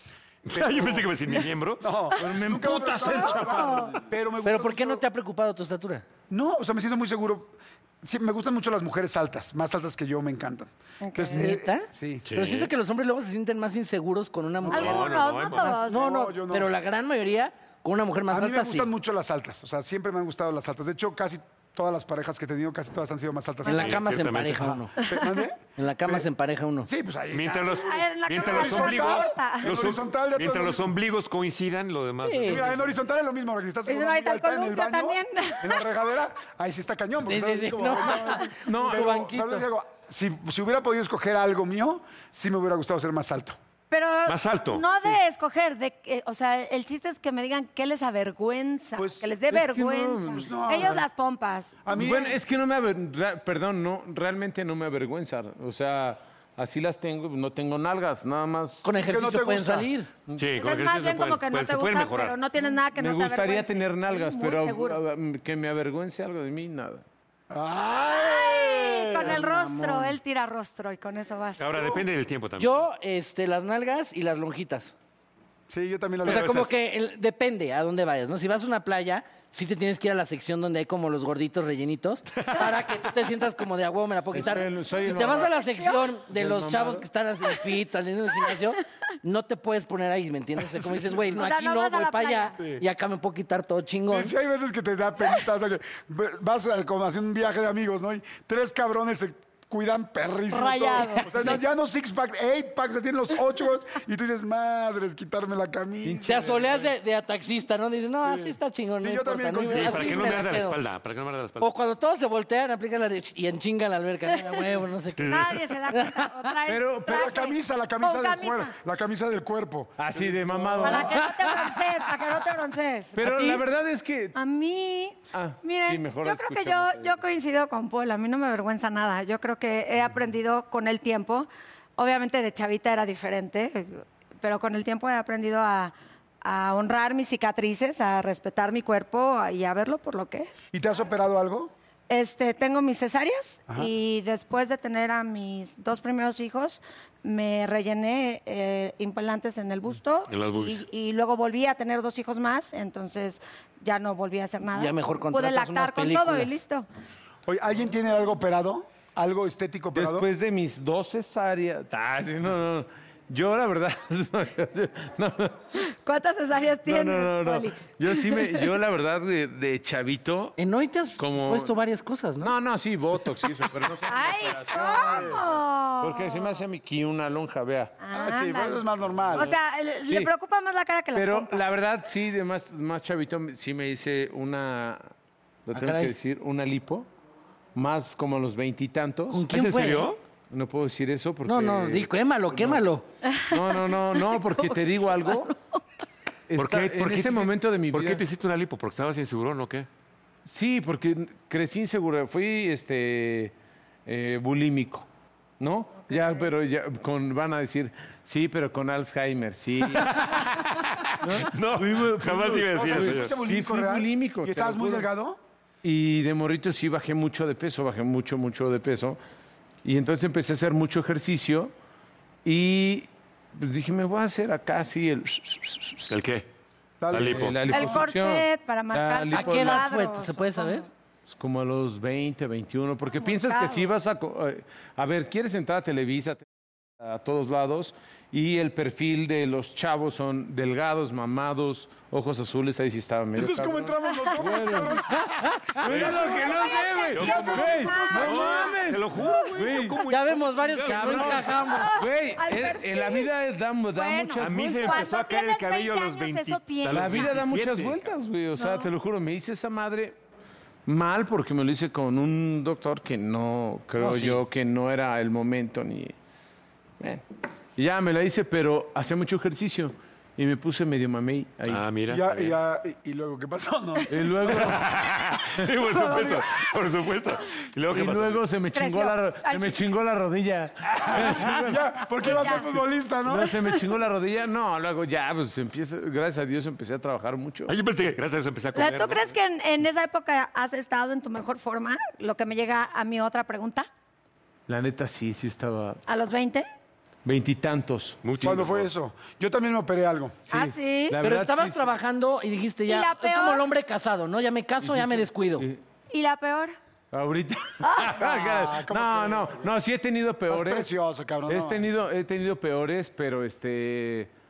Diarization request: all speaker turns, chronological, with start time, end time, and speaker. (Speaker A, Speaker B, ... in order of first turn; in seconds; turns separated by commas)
Speaker A: 0.4-1.9, Speaker B: 0.5-5.0, Speaker C: 2.2-4.0, Speaker D: 3.0-3.9, Speaker E: 4.4-6.0, Speaker B: 6.3-12.2, Speaker D: 11.0-11.5, Speaker E: 11.3-18.9, Speaker A: 12.2-12.7, Speaker B: 14.6-16.7, Speaker A: 14.7-15.8, Speaker D: 14.7-16.1, Speaker B: 18.3-26.3, Speaker E: 23.6-24.9, Speaker A: 23.6-24.7, Speaker D: 25.0-25.4, Speaker E: 25.8-26.9, Speaker B: 26.8-30.9, Speaker A: 27.3-33.0, Speaker D: 27.8-29.7, Speaker E: 32.2-32.6, Speaker B: 32.4-43.6, Speaker D: 33.9-35.8, Speaker E: 37.2-39.6, Speaker D: 38.0-38.5, Speaker C: 38.6-39.5, Speaker D: 43.9-52.1, Speaker A: 44.2-44.8, Speaker B: 49.0-49.3, Speaker C: 49.5-50.5, Speaker B: 50.3-51.0, Speaker B: 51.8-52.4, Speaker C: 51.9-58.9, Speaker E: 58.8-60.1, Speaker B: 59.0-59.9, Speaker A: 60.3-62.4, Speaker D: 60.5-65.0, Speaker C: 62.9-67.0, Speaker B: 67.5-69.4, Speaker D: 68.1-71.7, Speaker E: 69.2-70.2, Speaker A: 71.6-72.8, Speaker B: 71.7-72.0, Speaker E: 72.6-74.9, Speaker B: 75.7-76.7, Speaker E: 76.2-94.3, Speaker A: 76.3-76.7, Speaker A: 82.4-82.8, Speaker C: 84.3-85.5, Speaker D: 85.6-86.1, Speaker C: 86.3-87.1, Speaker D: 91.3-92.5, Speaker B: 92.6-92.8, Speaker B: 94.1-106.7, Speaker D: 100.5-101.4, Speaker C: 106.0-106.9, Speaker E: 106.2-110.8, Speaker B: 108.2-110.3, Speaker A: 109.6-111.7, Speaker E: 111.6-116.3, Speaker A: 115.1-115.5, Speaker D: 115.3-118.7, Speaker C: 116.7-117.3, Speaker B: 117.0-121.1, Speaker C: 120.0-121.3, Speaker D: 120.8-123.2, Speaker C: 123.2-124.3, Speaker E: 123.2-123.6, Speaker D: 124.3-140.7, Speaker C: 125.3-127.2, Speaker B: 140.7-141.7, Speaker D: 142.1-156.8, Speaker A: 150.3-150.8, Speaker E: 154.8-156.5, Speaker B: 157.4-160.3, Speaker C: 159.9-165.6, Speaker D: 165.7-168.7, Speaker C: 166.8-170.6, Speaker E: 170.6-172.5, Speaker C: 171.2-171.7, Speaker C: 172.4-177.9, Speaker D: 174.1-176.6, Speaker D: 178.0-181.6, Speaker B: 178.1-179.5, Speaker C: 181.1-185.1, Speaker C: 185.7-187.1, Speaker E: 185.7-186.1, Speaker C: 187.7-189.5, Speaker E: 189.3-190.1, Speaker A: 189.5-190.2, Speaker C: 190.5-192.8, Speaker E: 191.4-193.0, Speaker D: 193.2-195.8, Speaker C: 193.5-195.5, Speaker C: 196.5-198.2, Speaker A: 196.6-199.9, Speaker C: 200.4-203.5, Speaker C: 204.1-205.1, Speaker C: 205.6-215.1, Speaker D: 206.1-206.4, Speaker A: 211.3-213.3, Speaker B: 212.7-215.4, Speaker C: 215.8-219.2, Speaker C: 219.8-221.7, Speaker C: 222.4-226.1, Speaker A: 226.1-226.5, Speaker B: 227.0-227.8, Speaker A: 227.1-227.9, Speaker C: 227.1-229.9, Speaker D: 227.7-230.9, Speaker E: 229.3-230.9, Speaker C: 231.3-236.4, Speaker D: 233.2-233.9, Speaker C: 237.0-245.2, Speaker B: 243.3-245.2, Speaker C: 245.8-250.0, Speaker A: 245.8-251.8, Speaker D: 246.0-249.5, Speaker B: 248.1-248.6, Speaker E: 250.1-252.0, Speaker C: 250.8-255.1, Speaker D: 251.6-253.3, Speaker D: 253.9-257.3, Speaker A: 254.4-258.1, Speaker C: 256.9-260.2, Speaker D: 258.6-258.9, Speaker C: 260.9-266.1, Speaker E: 264.0-264.4, Speaker C: 267.8-271.8, Speaker A: 271.6-272.6, Speaker B: 272.1-274.3, Speaker C: 274.1-274.9, Speaker A: 274.5-278.4, Speaker C: 277.9-282.6, Speaker D: 278.7-279.8, Speaker B: 281.1-283.6, Speaker D: 282.2-282.6, Speaker C: 283.2-287.7, Speaker A: 287.7-289.3, Speaker D: 288.7-293.9, Speaker C: 294.7-296.0, Speaker D: 296.1-296.7, Speaker C: 297.2-298.5, Speaker A: 298.2-298.9, Speaker B: 298.4-300.5, Speaker D: 300.5-301.2, Speaker C: 300.5-301.9, Speaker E: 301.2-305.7, Speaker D: 302.9-303.6, Speaker C: 304.8-305.8, Speaker D: 306.1-306.7, Speaker C: 307.1-310.9, Speaker D: 307.8-308.1, Speaker B: 308.1-309.7, Speaker B: 310.5-311.9, Speaker C: 311.5-314.3